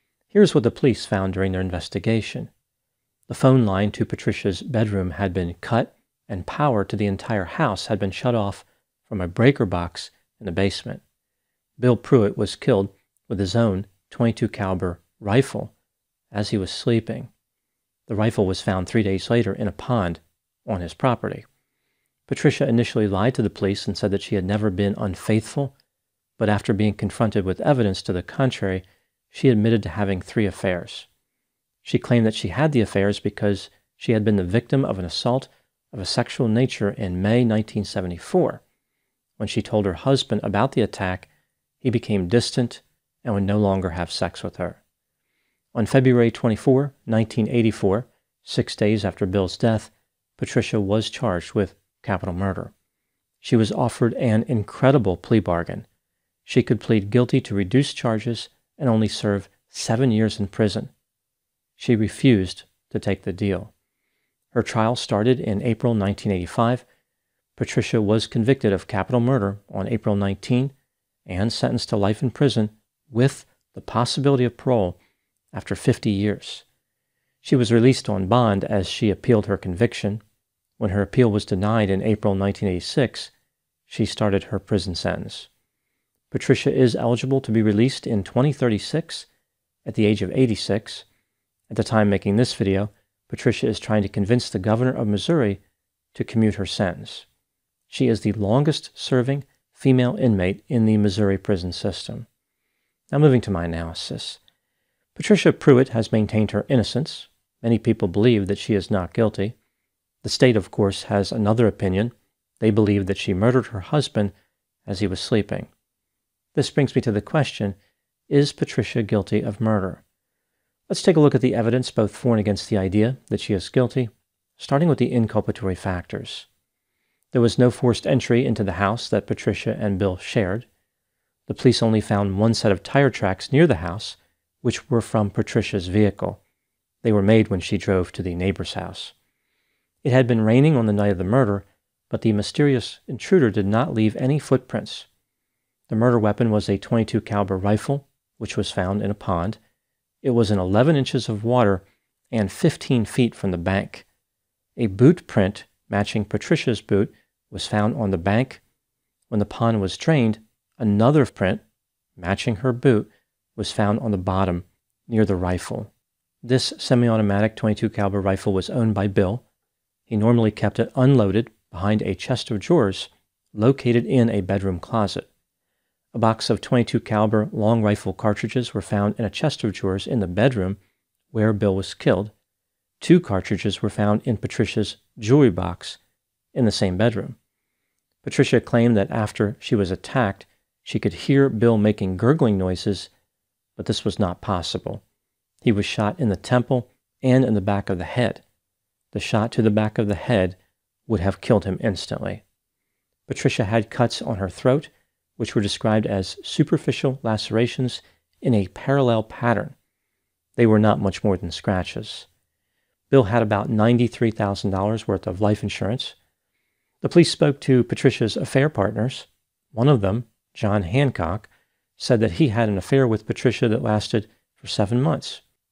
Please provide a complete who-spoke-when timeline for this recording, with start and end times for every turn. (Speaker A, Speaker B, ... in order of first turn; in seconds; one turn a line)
Speaker A: 0.3-2.5
Speaker A: 3.3-11.0
Speaker A: 11.8-15.7
Speaker A: 16.3-17.3
Speaker A: 18.1-21.4
Speaker A: 22.3-25.7
Speaker A: 26.4-31.1
Speaker A: 31.8-38.6
Speaker A: 39.4-41.3
Speaker A: 41.8-44.8
Speaker A: 45.7-52.7
Speaker A: 53.4-55.9
Speaker A: 56.4-60.9
Speaker A: 61.8-63.7
Speaker A: 64.5-66.8
Speaker A: 67.5-70.7
Speaker A: 71.2-75.0
Speaker A: 75.5-76.6
Speaker A: 77.4-80.2
Speaker A: 80.8-83.3
Speaker A: 83.9-85.5
Speaker A: 86.3-89.3
Speaker A: 89.8-91.0
Speaker A: 91.7-95.6
Speaker A: 96.1-97.2
Speaker A: 97.9-102.3
Speaker A: 103.1-104.4
Speaker A: 105.1-109.5
Speaker A: 110.2-114.3
Speaker A: 114.8-115.7
Speaker A: 116.5-117.8
Speaker A: 118.3-120.0
Speaker A: 120.9-126.5
Speaker A: 127.3-130.7
Speaker A: 131.5-136.4
Speaker A: 137.0-139.1
Speaker A: 140.0-145.1
Speaker A: 145.9-149.6
Speaker A: 150.2-154.1
Speaker A: 154.8-158.6
Speaker A: 159.3-161.6
Speaker A: 162.2-165.9
Speaker A: 166.4-169.4
Speaker A: 170.1-175.3
Speaker A: 176.1-180.8
Speaker A: 181.3-182.3
Speaker A: 183.0-186.0
Speaker A: 186.5-187.4
Speaker A: 188.2-193.1
Speaker A: 193.8-195.0
Speaker A: 195.6-198.4
Speaker A: 199.1-200.6
Speaker A: 201.1-202.4
Speaker A: 203.3-209.7
Speaker A: 210.6-212.3
Speaker A: 213.1-216.2
Speaker A: 217.0-225.4